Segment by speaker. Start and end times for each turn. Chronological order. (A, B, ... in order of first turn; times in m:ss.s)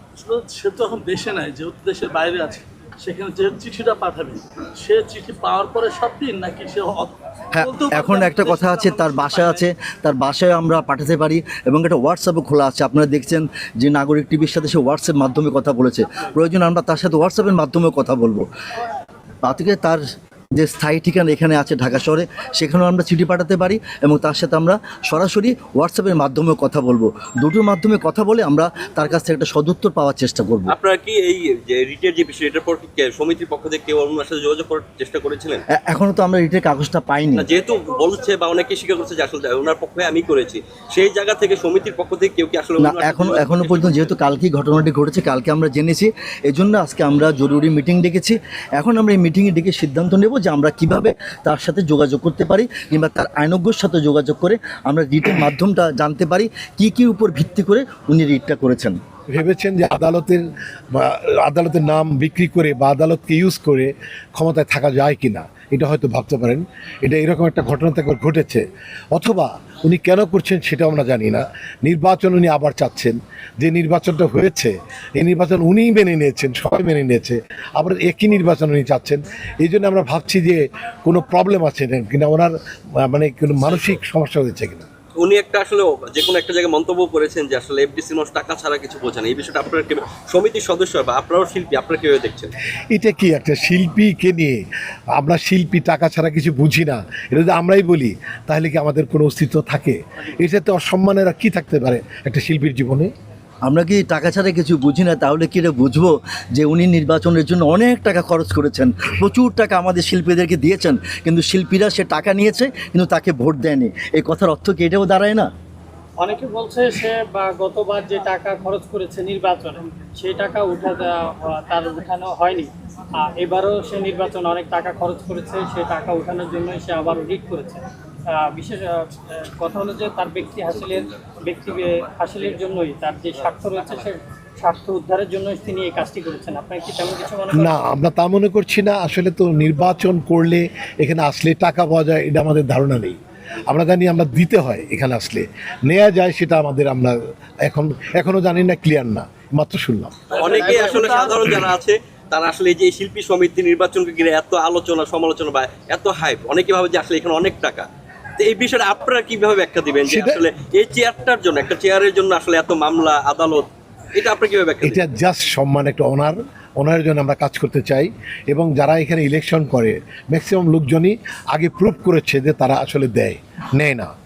0:00.2-0:09.6 A
0:07.5-0:18.4 B
0:19.4-0:20.0 B
0:20.6-0:30.8 B
0:30.7-0:35.6 C
0:35.7-0:37.5 B
0:37.4-0:44.1 C
0:42.8-0:59.0 B
0:59.3-1:00.4 D
1:00.9-1:24.9 D
1:25.2-1:32.5 C
1:32.9-1:34.6 D
1:35.2-1:43.1 D
1:43.6-1:55.5 B
1:56.2-2:17.8 E
2:17.5-2:30.2 D
2:30.3-2:31.7 A
2:30.3-2:37.8 C
2:38.4-2:45.0 C
2:40.0-2:40.4 D
2:44.8-2:54.1 D